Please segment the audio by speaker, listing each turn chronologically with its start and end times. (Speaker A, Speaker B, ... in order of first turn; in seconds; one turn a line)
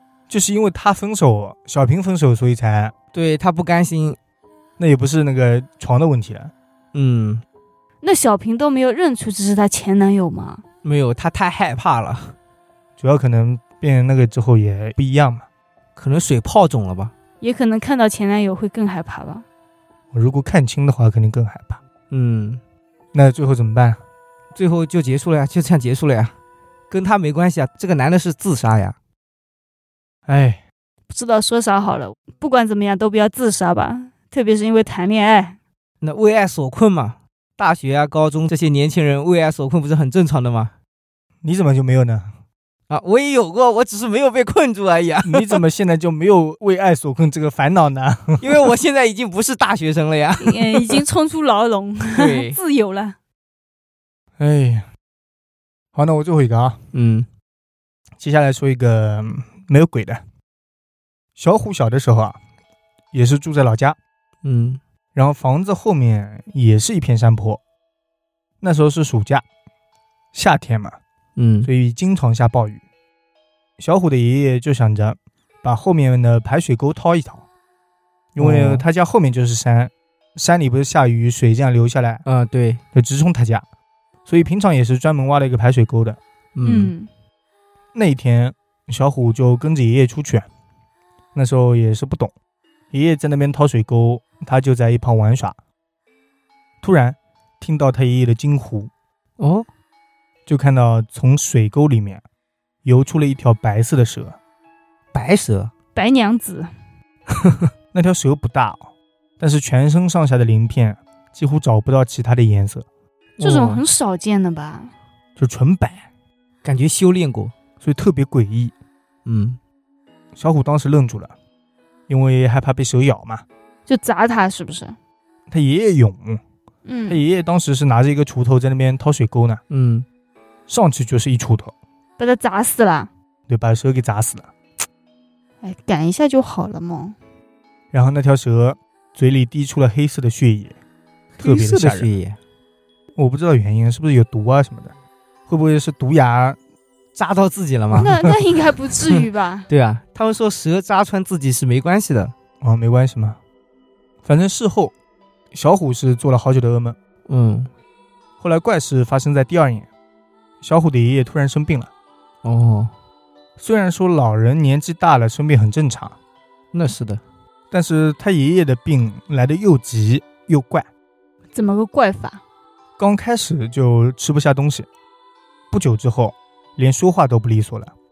Speaker A: 0.3-2.9
Speaker B: 3.1-4.2
Speaker A: 4.8-6.5
Speaker B: 6.9-7.4
Speaker C: 8.0-10.6
Speaker B: 10.8-12.3
Speaker A: 13.0-15.4
Speaker B: 16.0-17.1
Speaker C: 17.4-19.4
Speaker A: 20.1-21.8
Speaker B: 22.1-22.6
Speaker A: 23.1-24.0
Speaker B: 24.6-26.3
Speaker B: 26.9-28.9
Speaker A: 30.3-30.6
Speaker C: 31.1-35.6
Speaker B: 36.0-40.7
Speaker A: 41.4-42.3
Speaker B: 42.9-45.6
Speaker A: 45.2-48.6
Speaker B: 48.4-51.0
Speaker C: 50.4-53.2
Speaker B: 52.1-52.6
Speaker A: 54.4-54.9
Speaker A: 55.9-56.8
Speaker B: 56.9-57.3
Speaker A: 58.2-60.2
Speaker A: 61.4-62.4
Speaker A: 63.1-64.0
Speaker B: 64.4-64.8
Speaker A: 65.2-67.6
Speaker A: 68.6-69.5
Speaker A: 70.3-71.0
Speaker B: 71.4-71.7
Speaker A: 71.6-72.8
Speaker A: 73.8-77.4
Speaker A: 78.3-82.2
Speaker B: 78.4-78.8
Speaker B: 82.2-82.8
Speaker A: 82.9-83.6
Speaker A: 84.3-86.2
Speaker B: 86.5-86.9
Speaker C: 86.6-87.1
Speaker A: 87.9-90.5
Speaker A: 91.3-92.3
Speaker A: 92.9-95.6
Speaker A: 96.8-98.9
Speaker B: 99.4-99.7
Speaker A: 100.5-102.2
Speaker A: 102.8-104.4
Speaker B: 105.1-105.7
Speaker C: 106.0-106.7
Speaker B: 107.3-107.7
Speaker A: 107.9-112.9
Speaker B: 113.4-113.8
Speaker C: 113.4-114.9
Speaker A: 115.4-116.1
Speaker B: 116.6-117.5
Speaker A: 117.8-118.7
Speaker B: 119.3-119.6
Speaker A: 120.3-121.3
Speaker A: 122.1-123.5
Speaker C: 123.9-125.0
Speaker A: 125.5-126.4
Speaker C: 126.9-127.2
Speaker A: 127.1-129.6
Speaker B: 129.7-130.1
Speaker A: 130.7-131.7
Speaker C: 132.2-133.1
Speaker A: 133.5-134.5
Speaker C: 135.6-137.2
Speaker A: 137.9-140.8
Speaker A: 141.4-142.1
Speaker B: 141.4-142.4
Speaker A: 143.2-144.9
Speaker A: 145.5-146.6
Speaker B: 147.2-148.1
Speaker C: 147.9-149.7
Speaker B: 149.1-152.3
Speaker A: 152.6-153.4
Speaker A: 154.2-154.9
Speaker A: 155.5-157.0
Speaker B: 157.3-157.7
Speaker A: 158.4-159.9
Speaker A: 160.6-161.9
Speaker B: 162.4-162.9
Speaker A: 163.6-166.2
Speaker B: 166.7-167.2
Speaker A: 167.7-170.9
Speaker C: 171.5-172.4
Speaker A: 173.0-174.9
Speaker A: 175.7-177.9